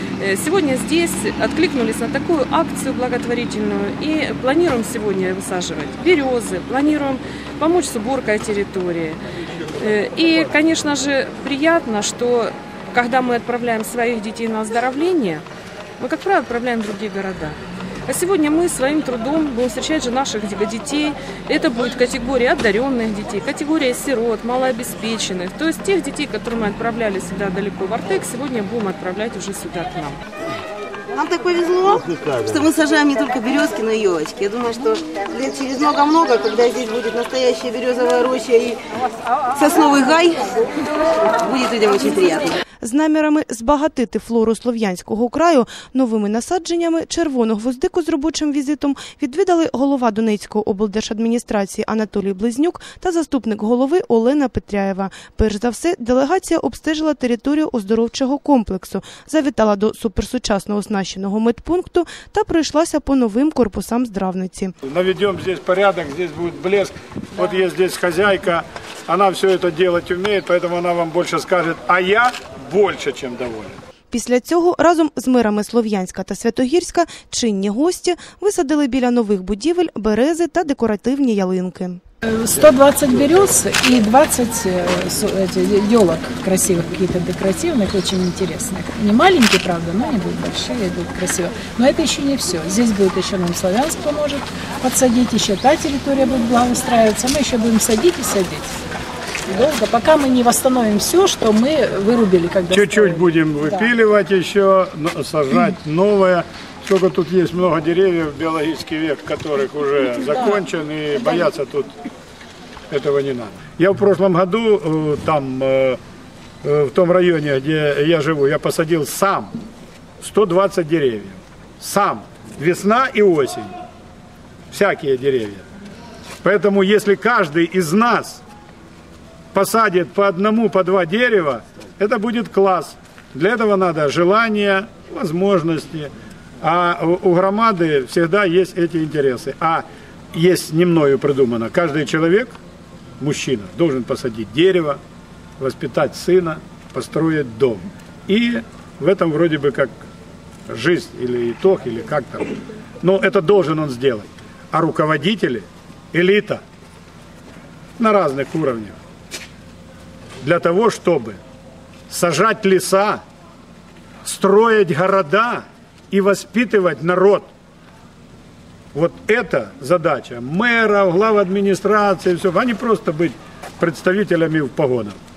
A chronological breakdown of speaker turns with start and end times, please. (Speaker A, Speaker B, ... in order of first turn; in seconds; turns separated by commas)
Speaker A: 0.2-9.2, Speaker A: 9.8-15.4, Speaker A: 16.0-30.2, Speaker B: 31.1-38.8, Speaker B: 39.5-42.5, Speaker C: 42.8-64.7, Speaker D: 64.8-73.7, Speaker C: 74.1-82.0, Speaker E: 82.2-98.8, Speaker E: 99.5-103.8, Speaker D: 102.7-111.9, Speaker E: 111.2-111.4, Speaker D: 112.9-116.0, Speaker D: 116.6-119.5, Speaker D: 120.2-123.7, Speaker D: 124.7-125.6, Speaker D: 126.4-128.4, Speaker D: 129.5-142.5, Speaker D: 143.2-145.0, Speaker D: 145.6-150.0, Speaker D: 150.7-156.6, Speaker D: 158.0-158.9, Speaker D: 160.4-161.4, Speaker D: 162.1-163.2, Speaker D: 164.2-167.5, Speaker D: 168.9-175.2